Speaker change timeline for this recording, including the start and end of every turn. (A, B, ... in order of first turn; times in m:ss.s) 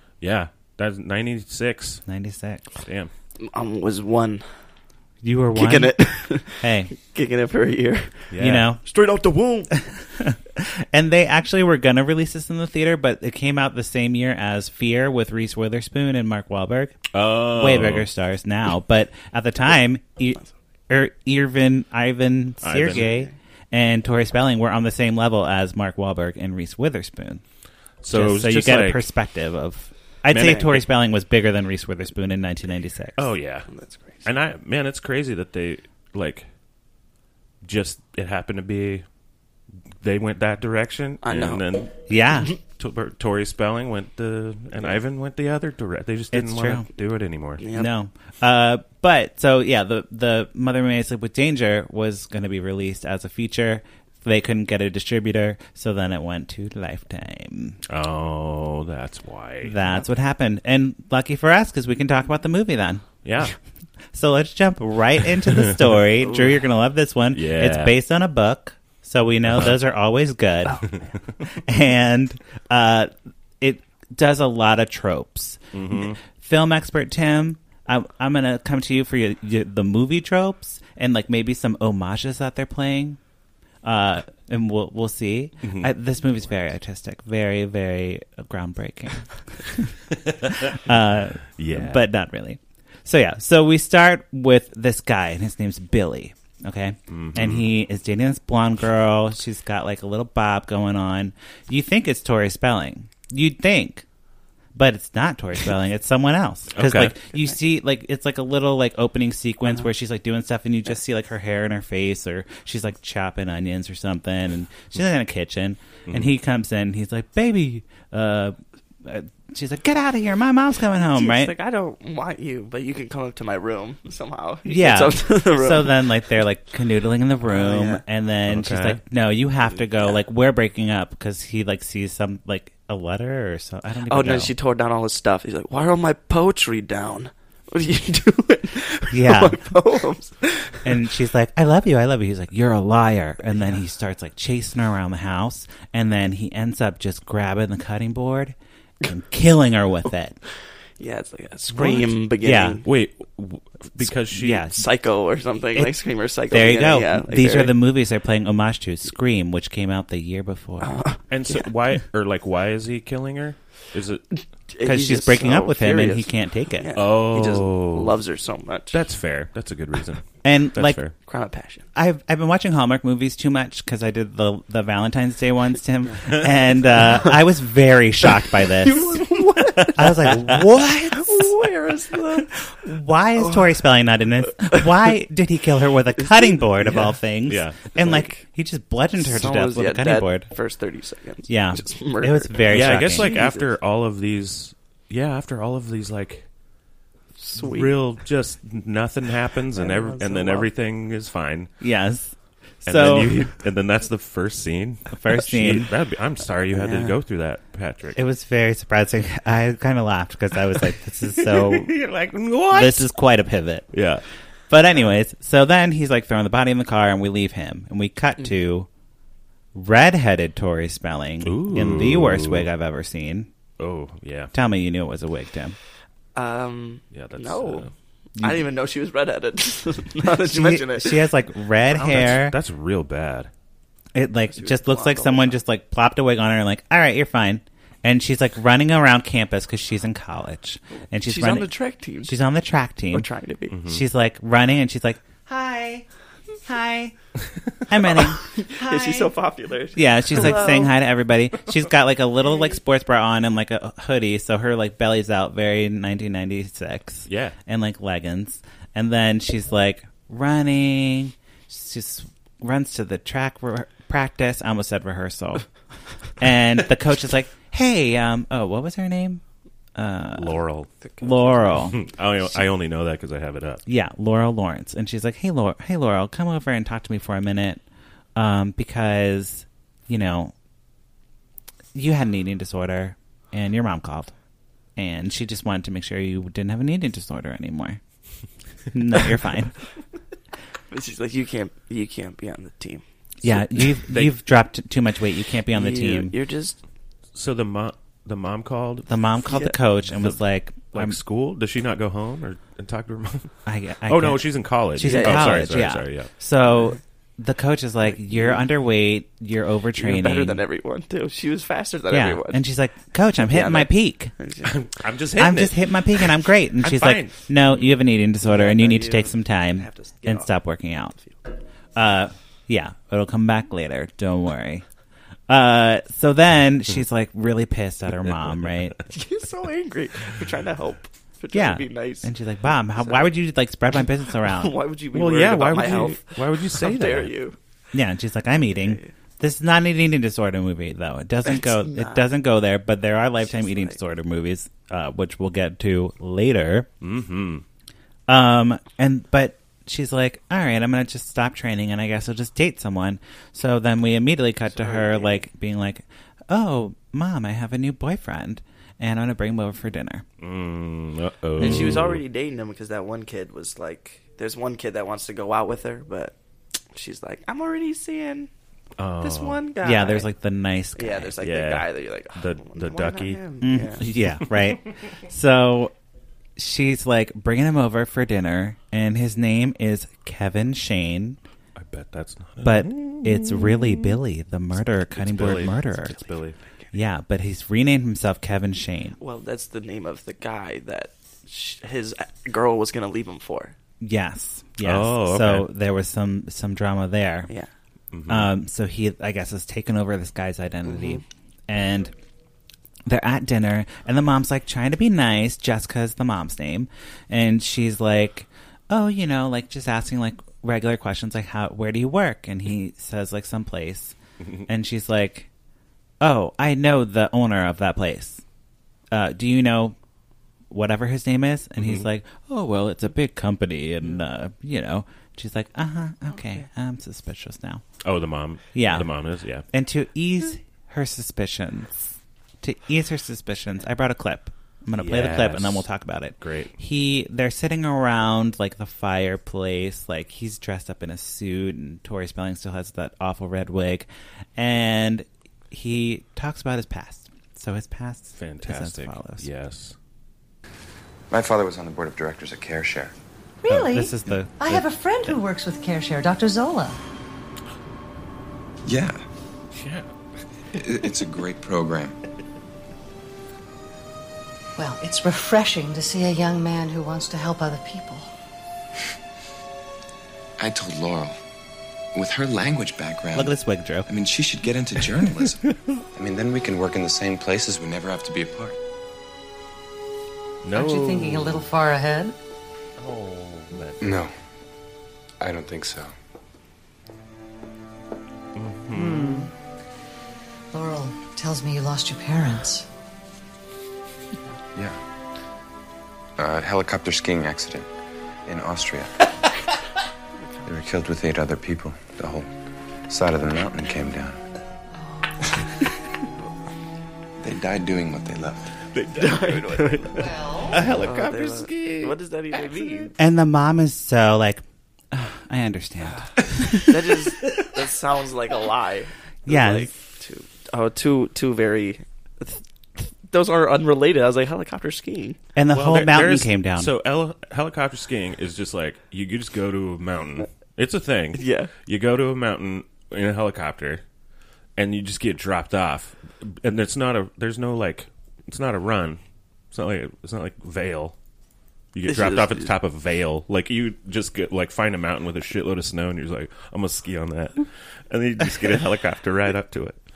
0:00.2-0:02.0 A
0:02.1-0:02.7 B
0:02.8-0:03.1 A
0:03.4-0:04.4 C
0:05.2-0:05.9 B
0:05.6-0:08.3 C
0:06.5-0:06.9 B
0:08.3-0:08.6 A
0:08.4-0:08.8 B
0:08.8-0:09.7 C
0:09.7-0:27.4 B
0:17.1-0:18.1 A
0:22.6-0:23.1 A
0:23.0-0:23.3 C
0:28.0-0:29.0 A
0:28.1-0:33.3 B
0:30.3-0:30.8 A
0:33.2-0:33.7 A
0:33.7-0:34.2 C
0:34.2-0:36.5 A
0:37.6-0:39.0 A
0:40.0-0:47.6 A
0:41.2-0:41.7 C
0:42.1-0:42.5 B
0:46.3-0:46.9 B
0:47.6-0:47.9 C
0:47.7-0:57.8 B
0:57.9-0:59.8 A
0:59.6-1:03.1 B
1:03.2-1:03.5 A
1:04.1-1:23.2 B
1:07.3-1:07.9 A
1:09.4-1:09.8 A
1:15.7-1:16.2 A
1:23.8-1:30.0 B
1:25.6-1:25.9 A
1:30.2-1:30.8 A
1:30.6-1:44.0 B
1:31.5-1:32.0 A
1:37.1-1:37.7 A
1:44.7-2:01.5 B
1:46.7-1:47.1 A
1:56.0-1:56.3 A
2:01.1-2:06.0 C
2:04.6-2:14.5 B
2:07.4-2:08.0 C
2:08.5-2:09.0 A
2:09.8-2:10.2 C
2:14.1-2:20.9 C
2:19.1-2:19.7 B
2:20.8-2:30.4 B
2:31.0-2:32.8 C
2:32.4-2:32.8 B
2:32.8-2:34.7 A
2:34.0-2:34.8 B
2:34.7-2:37.7 C
2:36.5-2:40.9 B
2:40.8-2:41.7 C
2:41.3-2:44.2 A
2:44.4-2:49.0 C
2:44.8-2:46.9 B
2:46.9-2:48.2 A
2:48.9-2:51.1 A
2:50.4-2:51.0 B
2:51.2-2:51.8 C
2:51.9-2:59.3 B
2:56.1-2:56.3 C
2:56.9-2:57.4 C
2:58.6-3:00.4 C
2:59.7-3:00.5 A
2:59.9-3:01.6 B
3:01.1-3:02.5 C
3:02.3-3:10.5 B
3:03.4-3:03.8 C
3:04.6-3:04.8 C
3:06.8-3:07.1 C
3:07.4-3:07.8 A
3:07.9-3:08.4 C
3:09.2-3:13.7 C
3:11.5-3:13.4 B
3:12.7-3:16.5 A
3:17.4-3:17.9 C
3:17.6-3:21.7 A
3:19.8-3:20.7 C
3:21.8-3:23.4 B
3:22.8-3:28.2 A
3:25.1-3:25.9 B
3:26.7-3:27.1 C
3:28.2-3:31.9 B
3:31.3-3:33.1 A
3:32.7-3:33.9 B
3:33.9-3:34.2 A
3:34.7-3:38.9 B
3:39.7-3:43.5 B
3:41.4-3:42.7 A
3:43.8-3:44.5 A
3:44.5-3:45.8 B
3:46.3-3:51.3 C
3:47.1-3:47.9 A
3:48.4-3:48.6 B
3:50.3-3:52.6 B
3:51.9-3:52.4 C
3:52.1-3:53.5 A
3:54.1-4:01.7 B
3:54.5-3:55.6 C
4:01.2-4:02.4 C
4:02.2-4:03.3 B
4:03.1-4:03.8 C
4:03.7-4:04.0 A
4:03.8-4:06.0 B
4:06.6-4:07.1 B
4:07.9-4:09.3 B
4:08.1-4:10.9 C
4:09.9-4:25.7 B
4:17.3-4:17.6 A
4:26.4-4:29.4 B
4:30.0-4:30.6 B
4:30.4-4:30.9 A
4:31.2-4:32.0 B
4:31.2-4:31.6 C
4:31.7-4:33.8 A
4:33.8-4:37.8 B
4:38.4-4:40.5 B
4:41.9-4:44.3 B
4:45.0-4:48.0 B
4:48.9-4:49.8 B
4:50.9-4:53.0 C
4:53.4-4:56.3 B
4:53.4-4:54.3 A
4:55.7-4:56.8 C
4:57.3-4:59.1 A
4:59.1-5:01.2 B
4:59.4-4:59.8 C
5:00.9-5:03.5 A
5:03.6-5:10.6 B
5:04.0-5:06.3 A
5:05.0-5:05.7 C
5:08.3-5:08.6 C
5:10.0-5:12.6 C
5:12.1-5:14.3 B
5:13.4-5:14.7 C
5:14.6-5:15.8 A
5:15.4-5:21.2 B
5:16.8-5:17.5 A
5:18.4-5:20.5 C
5:21.9-5:24.8 B
5:25.5-5:29.0 B
5:29.1-5:32.3 C
5:31.5-5:34.7 B
5:33.0-5:33.3 C
5:34.4-5:37.6 C
5:35.1-5:37.3 A
5:37.9-5:46.9 B
5:38.8-5:39.1 C
5:41.4-5:42.3 C
5:43.4-5:44.0 C
5:47.0-5:47.6 A
5:48.3-6:00.2 B
5:54.7-5:55.4 C
6:00.4-6:02.2 A
6:01.6-6:02.0 B
6:01.6-6:06.3 C
6:06.9-6:08.5 C
6:09.0-6:09.6 A
6:09.2-6:10.3 C
6:09.8-6:11.3 B
6:11.0-6:14.1 C
6:11.4-6:13.4 A
6:13.6-6:15.9 B
6:16.6-6:21.4 B
6:21.8-6:24.2 A
6:22.6-6:26.2 B
6:25.1-6:26.6 A
6:26.9-6:29.2 B
6:29.2-6:33.7 C
6:34.0-6:37.5 B
6:34.8-6:35.7 A
6:38.1-6:38.5 A
6:38.3-6:42.1 B
6:43.0-6:54.2 B
6:54.7-6:55.5 B
6:56.2-6:58.4 B
6:59.1-7:00.0 B
7:00.7-7:07.8 B
7:01.8-7:02.0 A
7:08.0-7:09.6 A
7:08.7-7:09.1 B
7:09.7-7:29.5 B
7:14.9-7:15.8 A
7:16.4-7:16.7 A
7:28.4-7:29.9 A
7:31.3-7:33.1 D
7:33.6-7:37.0 E
7:33.7-7:35.4 B
7:38.8-7:39.2 D
7:39.7-7:40.1 A
7:40.7-7:42.2 D
7:44.8-7:48.3 E
7:50.6-7:51.3 D
7:52.1-7:58.8 D
7:53.3-7:54.1 B
8:00.6-8:01.7 A
8:00.7-8:02.3 E
8:03.0-8:04.0 A
8:04.0-8:04.3 D
8:05.4-8:06.1 D
8:08.5-8:09.5 A
8:09.2-8:09.5 E
8:10.7-8:12.8 E
8:16.4-8:17.9 D
8:18.5-8:19.3 D
8:20.6-8:22.5 D
8:23.1-8:24.4 D
8:27.4-8:28.8 D
8:28.9-8:32.2 A
8:29.1-8:30.3 C
8:30.2-8:30.8 E
8:30.9-8:33.1 C
8:33.2-8:36.9 B
8:36.2-8:45.4 C
8:39.4-8:39.9 B
8:45.5-8:46.9 B
8:45.7-8:54.0 A
8:51.3-8:51.7 C
8:54.8-8:59.2 A
8:59.7-9:01.1 A
9:01.9-9:10.0 A
9:02.0-9:02.7 C